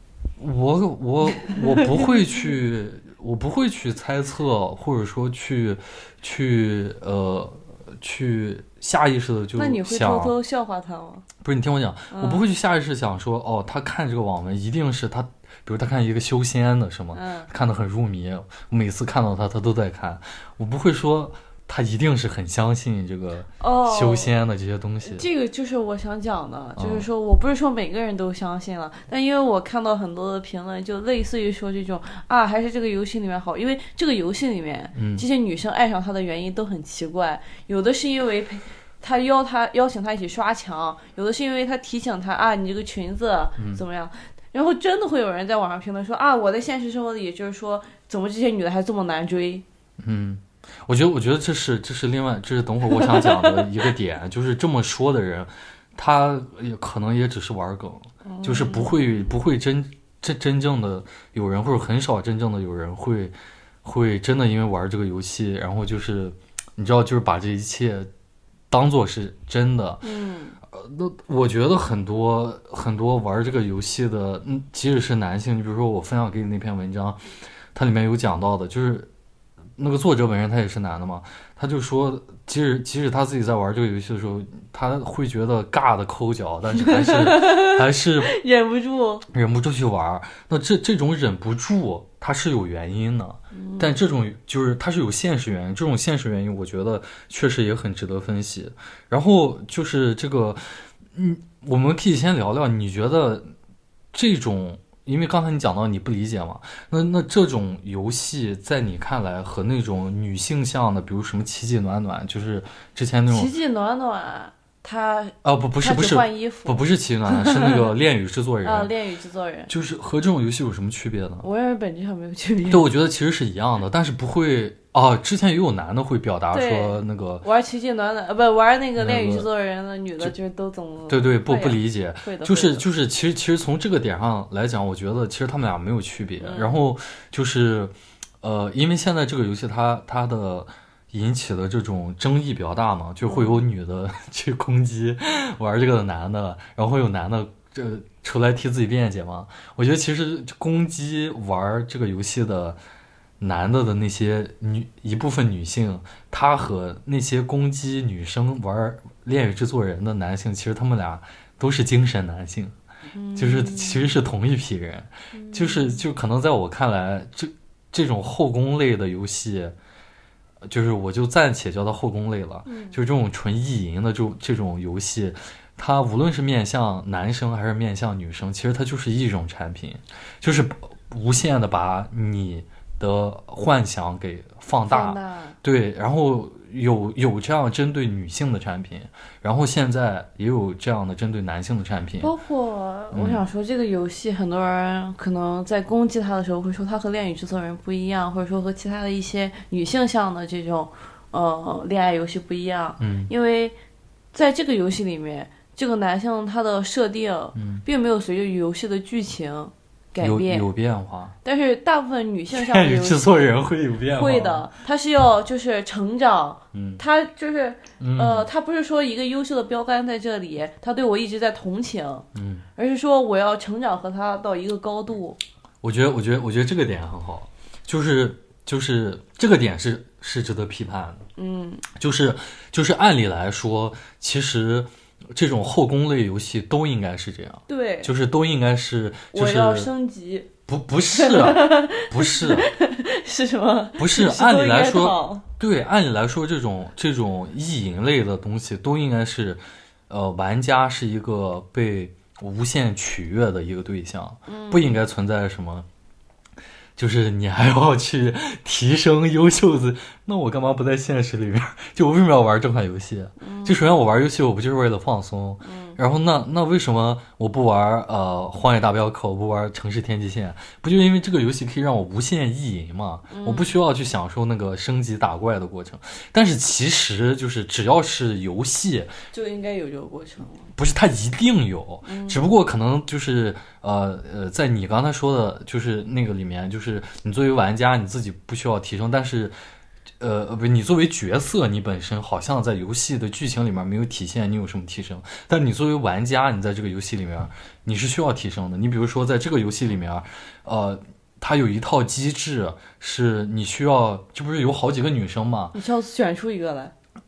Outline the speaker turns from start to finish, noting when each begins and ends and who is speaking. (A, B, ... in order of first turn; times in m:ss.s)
0:00.4-0:10.3 A
0:01.4-0:02.0 B
0:09.6-0:11.2 B
0:11.4-0:25.3 A
0:12.1-0:12.4 B
0:17.1-0:17.5 B
0:23.6-0:24.3 B
0:25.0-0:49.6 B
0:26.8-0:27.1 A
0:34.9-0:35.2 A
0:43.6-0:43.8 A
0:50.0-1:08.1 A
0:52.9-0:53.6 B
0:58.2-0:59.2 B
1:08.7-1:10.0 A
1:10.0-1:10.6 B
1:10.7-1:19.1 A
1:19.8-1:28.3 A
1:26.7-1:29.3 B
1:29.3-1:43.5 A
1:33.5-1:34.0 B
1:44.1-1:53.5 A
1:53.3-1:57.9 B
1:55.4-1:58.9 A
1:58.6-1:59.7 B
1:59.7-2:01.4 A
2:01.4-2:02.9 B
2:02.7-2:07.4 A
2:06.5-2:12.8 B
2:09.0-2:09.5 A
2:11.1-2:32.8 A
2:16.4-2:16.7 B
2:23.2-2:23.6 B
2:33.4-2:42.7 A
2:43.1-2:44.2 B
2:43.4-2:49.8 A
2:45.3-2:46.0 B
2:50.6-3:12.3 A
2:52.6-2:53.0 B
3:04.9-3:05.6 B
3:12.2-3:23.7 B
3:13.1-3:13.4 A
3:23.0-3:23.3 A
3:24.3-3:30.6 B
3:27.5-3:27.8 A
3:30.2-3:31.4 A
3:31.4-3:33.2 B
3:32.5-3:34.7 A
3:34.1-3:45.4 B
3:36.7-3:37.0 A
3:38.0-3:38.4 A
3:42.3-3:42.6 A
3:45.8-3:51.2 A
3:51.4-3:51.8 B
3:51.9-3:59.9 A
3:57.7-3:58.1 B
3:59.3-4:00.5 B
4:00.7-4:02.7 A
4:01.1-4:05.4 B
4:04.0-4:15.8 A
4:14.5-4:15.0 B
4:17.0-4:39.1 A
4:23.4-4:23.8 B
4:25.6-4:26.0 B
4:33.3-4:33.8 B
4:39.3-4:40.7 B
4:40.8-4:49.5 A
4:42.0-4:42.4 B
4:50.2-5:05.7 A
5:05.7-5:06.9 B